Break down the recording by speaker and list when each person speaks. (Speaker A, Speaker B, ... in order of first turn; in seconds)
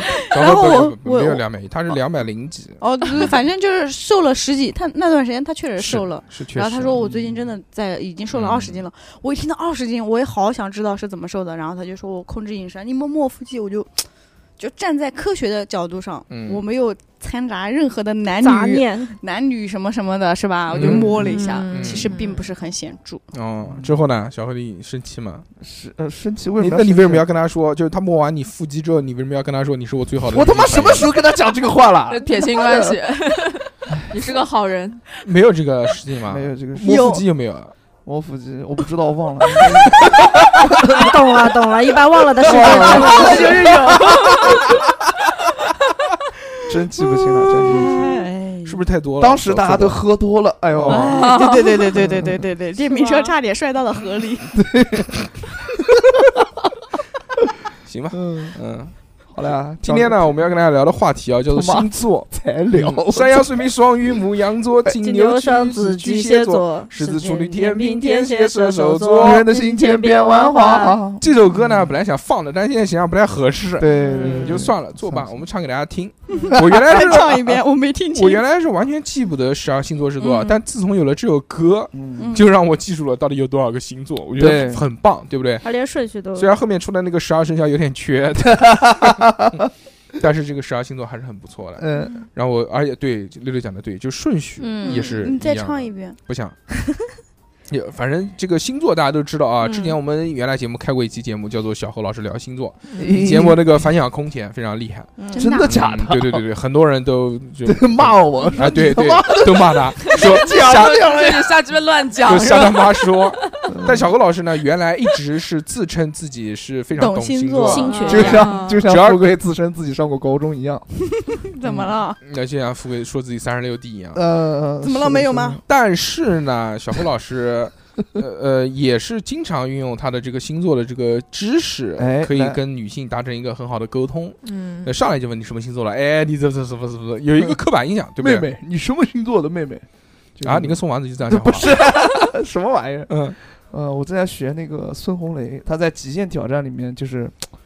Speaker A: 0.2-1.4, 2.8-23.2, 42.5-44.3, 47.5-48.8, 50.9-54.6, 76.3-78.4, 82.2-82.5, 94.8-96.2, 105.2-105.7, 117.0-118.5, 121.2-122.2, 124.8-125.6
Speaker B: 0.3-3.3, 5.8-7.0, 8.3-8.8, 16.3-16.6, 20.7-21.1, 21.7-22.1, 23.3-25.5, 26.6-31.1, 35.2-37.7, 48.6-50.0, 50.7-51.2, 57.8-58.9, 59.8-69.4, 71.2-77.6, 78.1-85.7, 86.3-89.2, 90.2-96.5, 97.7-105.1, 105.6-111.0, 112.2-119.2, 122.2-124.2, 125.7-138.5, 140.4-141.7, 143.1-143.4
Speaker C: 7.0-7.4, 20.8-21.3, 23.6-24.0, 25.6-27.2, 30.3-32.9, 33.9-34.2, 36.3-37.1, 38.0-41.1, 42.4-44.6, 46.7-48.0, 49.2-51.2, 51.9-52.4, 54.5-55.1, 58.1-58.6, 59.3-60.4, 61.5-63.5, 69.2-71.9, 73.8-75.4, 81.9-82.3, 84.4-84.8, 88.9-89.6, 91.8-92.2, 103.0-103.6, 105.3-106.4, 107.6-111.5, 113.7-114.1, 118.1-120.9, 121.6-121.9, 124.1-125.6, 132.0-132.6, 138.2-139.8, 140.4-143.2, 143.7-147.4
Speaker D: 18.4-19.2, 40.8-43.7, 65.0-71.0, 74.0-74.6, 85.6-86.5, 94.6-95.2, 99.6-99.9, 117.6-118.4
Speaker E: 21.2-22.5, 32.1-35.0, 44.0-44.4, 51.1-51.9, 53.0-53.3, 102.9-103.2, 110.0-113.7, 117.8-118.8, 134.4-134.9